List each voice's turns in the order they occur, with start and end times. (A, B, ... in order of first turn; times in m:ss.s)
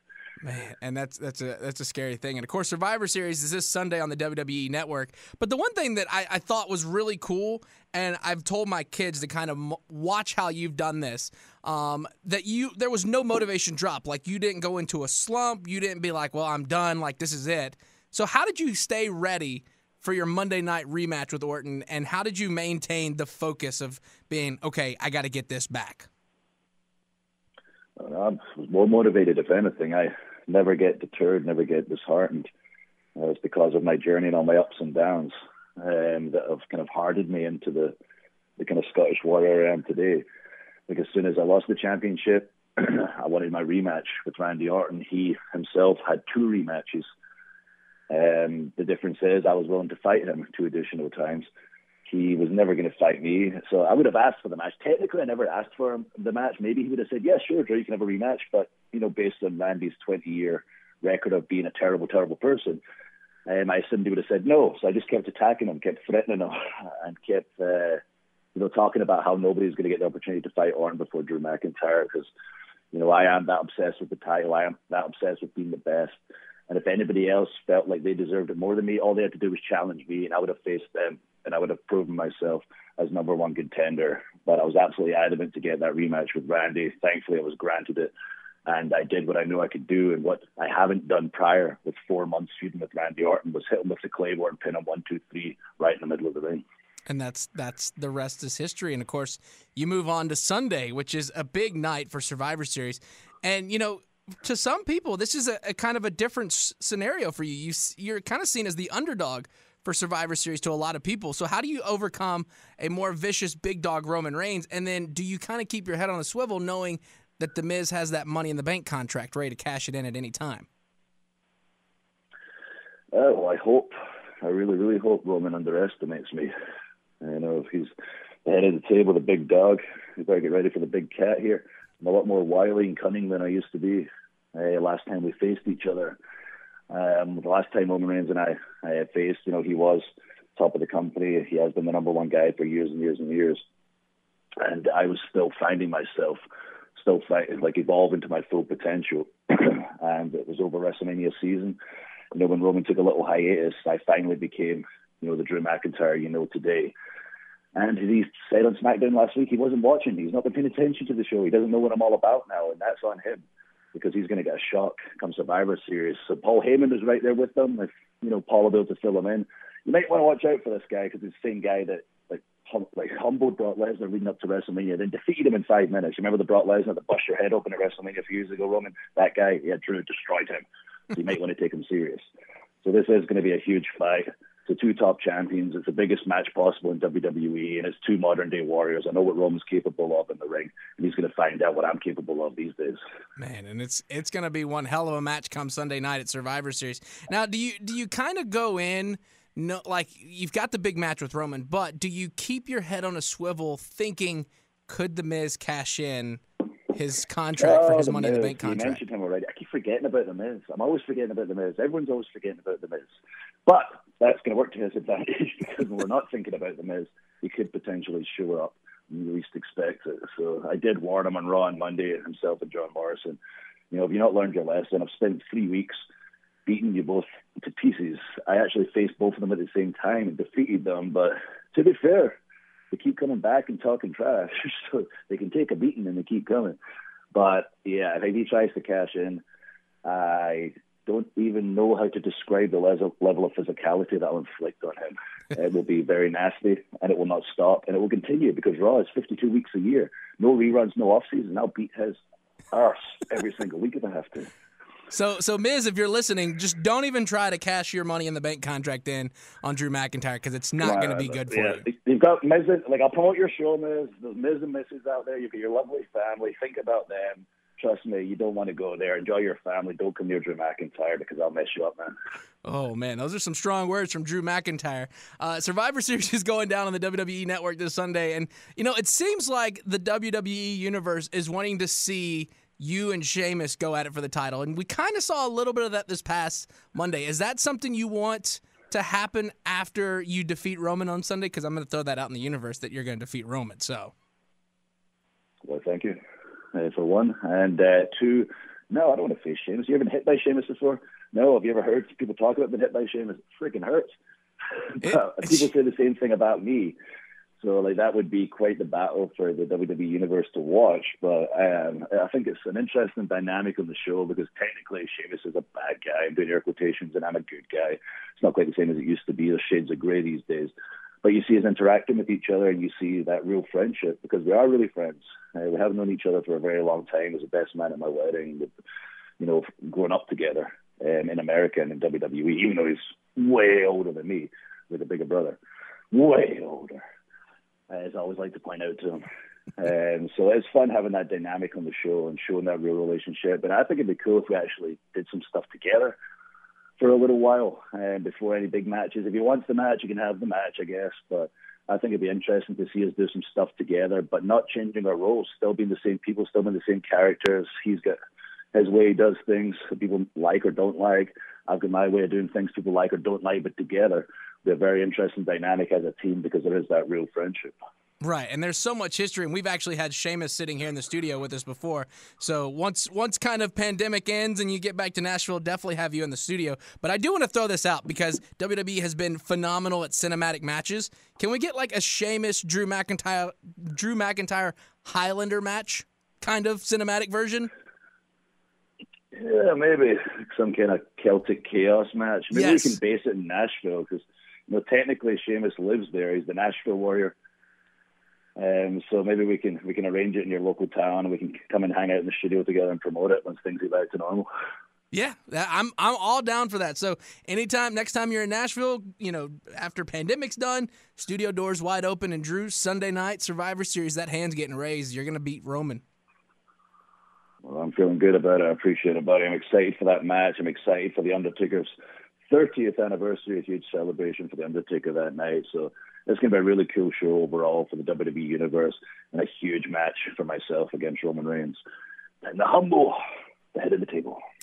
0:00.4-0:26.1 A
0:28.0-0:32.5 B
0:33.2-0:38.0 B
0:38.6-0:40.2 B
0:40.9-0:47.0 B
0:48.1-0:51.5 B
0:52.1-1:02.8 B
1:03.5-1:08.0 B
1:08.6-1:12.3 B
1:12.9-1:16.2 B
1:16.7-1:28.1 B
1:28.7-1:36.6 B
1:37.1-2:00.7 A
2:03.1-2:06.5 B
2:07.2-2:07.9 B
2:08.5-2:16.2 B
2:16.9-2:20.0 B
2:20.6-2:23.6 B
2:24.6-2:26.4 B
2:27.0-2:31.8 B
2:32.3-2:36.9 B
2:37.8-3:02.2 B
3:02.8-3:13.0 B
3:13.4-3:29.0 A
3:27.6-3:33.1 B
3:33.7-3:43.4 B
3:43.9-3:46.0 B
3:46.7-3:52.4 B
3:52.9-3:56.8 B
3:57.3-3:59.4 B
4:00.0-4:12.2 B
4:12.7-4:14.5 B
4:15.1-4:21.8 A
4:20.8-4:32.1 B
4:32.6-4:54.1 A
4:55.6-4:56.2 B
4:56.7-5:04.1 B
5:04.9-5:07.0 B
5:05.0-5:05.7 A
5:07.6-5:28.7 B
5:29.4-5:35.6 B
5:36.1-5:37.0 B
5:37.9-5:39.2 B
5:39.8-5:46.2 B
5:47.0-5:58.2 B
5:58.7-6:07.8 B
6:08.2-6:27.7 A
6:29.3-6:37.4 B
6:32.5-6:33.0 A
6:38.6-6:44.5 B
6:45.1-6:56.0 A
6:57.6-7:01.9 B
7:02.5-7:11.8 B
7:12.4-7:13.2 B
7:13.7-7:14.4 B